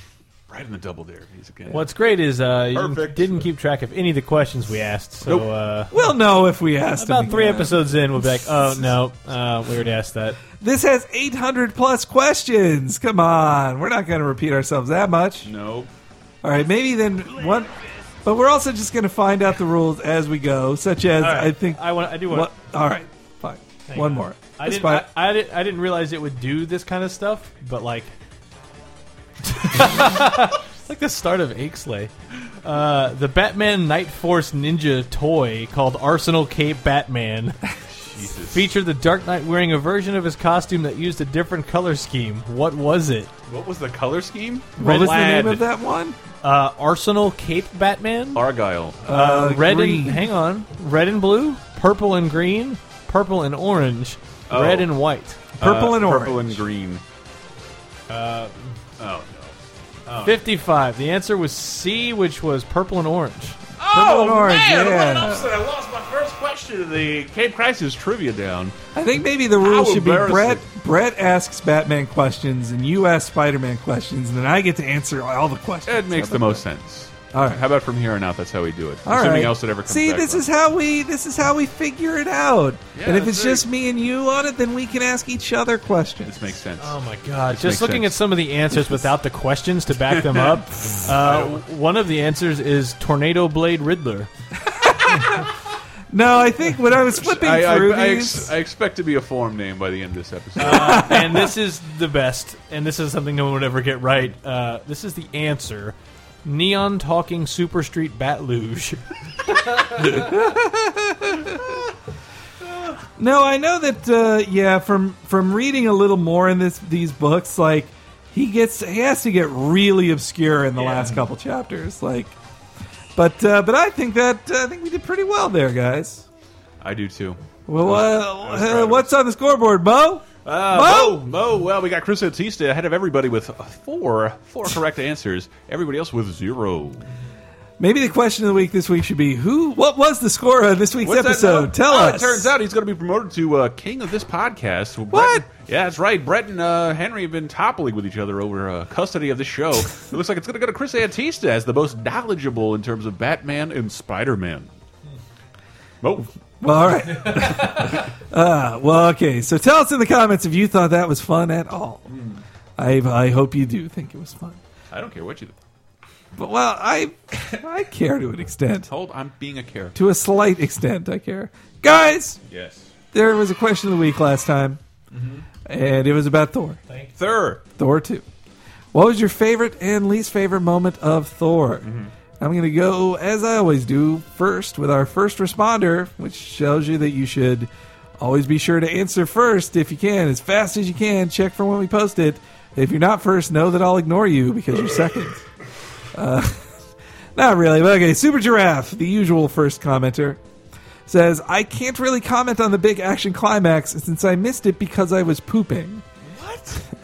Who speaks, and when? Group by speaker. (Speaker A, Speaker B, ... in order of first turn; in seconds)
Speaker A: 0.5-1.9, 2.7-3.5, 15.4-15.9, 37.9-38.7, 43.5-45.6, 48.4-49.0, 54.5-54.9, 55.6-57.0, 59.0-59.5, 60.1-60.4, 63.8-68.7, 69.6-70.6, 75.9-80.5, 83.0-83.6, 86.2-87.0, 87.5-88.2, 90.1-91.6, 97.1-101.2, 120.7-121.3, 126.8-129.1, 130.4-137.1, 141.0-154.7, 156.0-156.3, 162.1-162.4, 164.9-165.6, 168.9-170.0, 172.5-172.9, 175.1-175.4, 177.2-177.6, 181.8-182.1, 206.3-206.8
Speaker B: 1.7-5.9, 7.0-10.4, 21.2-22.5, 23.9-28.1, 29.4-32.1, 32.6-37.6, 38.5-43.3, 46.4-48.4, 49.1-55.4, 58.1-58.8, 60.2-63.6, 86.8-94.3, 100.6-110.2
Speaker C: 5.9-7.8, 10.6-15.5, 16.4-17.7, 18.2-25.1, 44.8-46.2, 49.0-50.3, 55.6-56.6, 63.9-65.5, 69.0-76.6, 77.3-77.6, 79.1-86.5, 94.6-95.5, 96.1-98.5, 100.6-101.5, 110.0-111.8, 113.2-122.4, 123.2-126.2, 127.7-131.2, 137.8-142.5, 145.1-145.4, 156.6-162.1, 162.8-164.6, 166.4-168.9, 169.9-172.4, 173.1-174.8, 175.7-176.8, 177.8-178.2, 178.9-181.9, 182.4-195.4, 196.1-196.7, 197.4-200.4, 201.1-206.0